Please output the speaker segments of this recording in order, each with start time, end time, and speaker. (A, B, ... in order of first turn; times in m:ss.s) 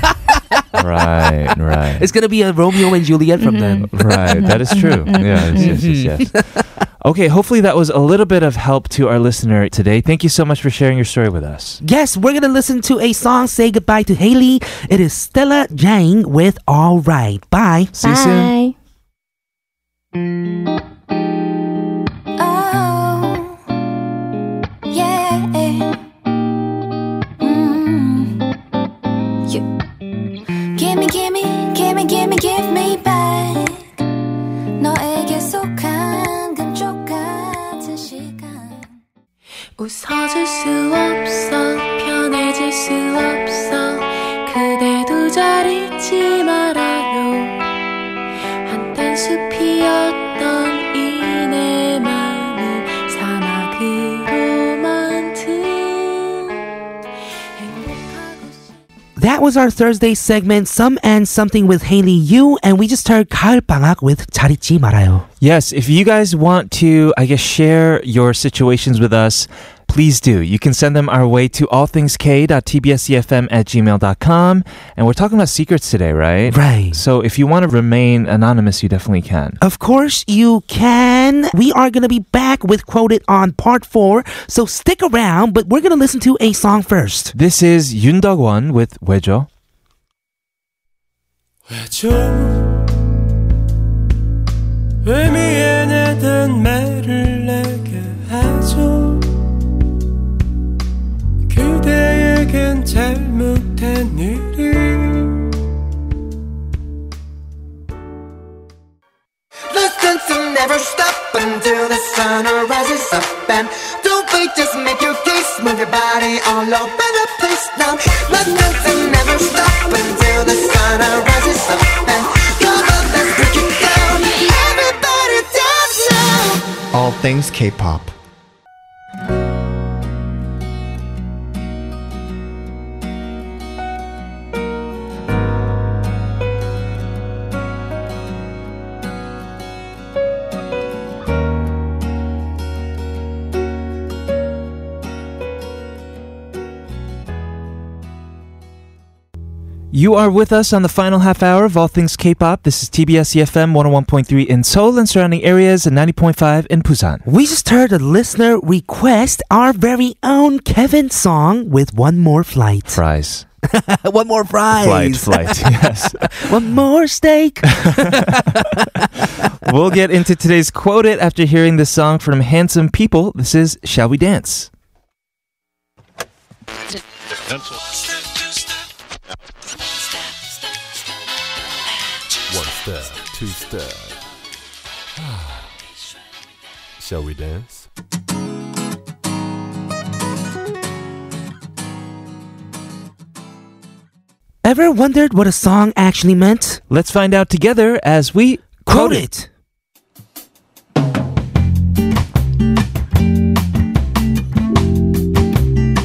0:00.3-0:00.8 A
0:00.8-0:02.1 B
0:02.0-0:06.7 A
0:03.4-0:05.8 C
0:03.9-0:06.3 B
0:07.0-0:11.8 B
0:11.8-0:17.9 A
0:18.0-0:18.5 B
0:18.0-0:18.8 C
0:22.4-0:23.6 D
0:24.9-0:26.0 D
0:27.4-0:28.4 D
0:30.8-0:33.9 D
0:34.8-0:38.9 D
0:39.8-0:47.6 D
0:48.7-0:56.7 D
0:57.6-0:58.7 D
0:59.2-1:05.3 A
1:05.4-1:19.6 B
1:16.5-1:17.0 A
1:19.6-1:27.3 A
1:27.3-1:29.5 B
1:31.7-1:32.7 E
1:35.0-1:39.3 E
1:41.5-1:45.4 E
1:49.7-2:08.1 F
2:29.9-2:37.2 B
2:37.3-2:43.0 A
2:42.9-2:43.5 B
2:43.6-2:49.1 A
2:44.8-2:46.6 B
2:47.7-2:54.7 B
3:02.5-3:04.2 G
3:05.2-3:05.7 G
3:07.0-3:07.9 G
3:14.6-3:16.8 A
3:16.9-3:19.3 B
3:18.8-3:19.5 A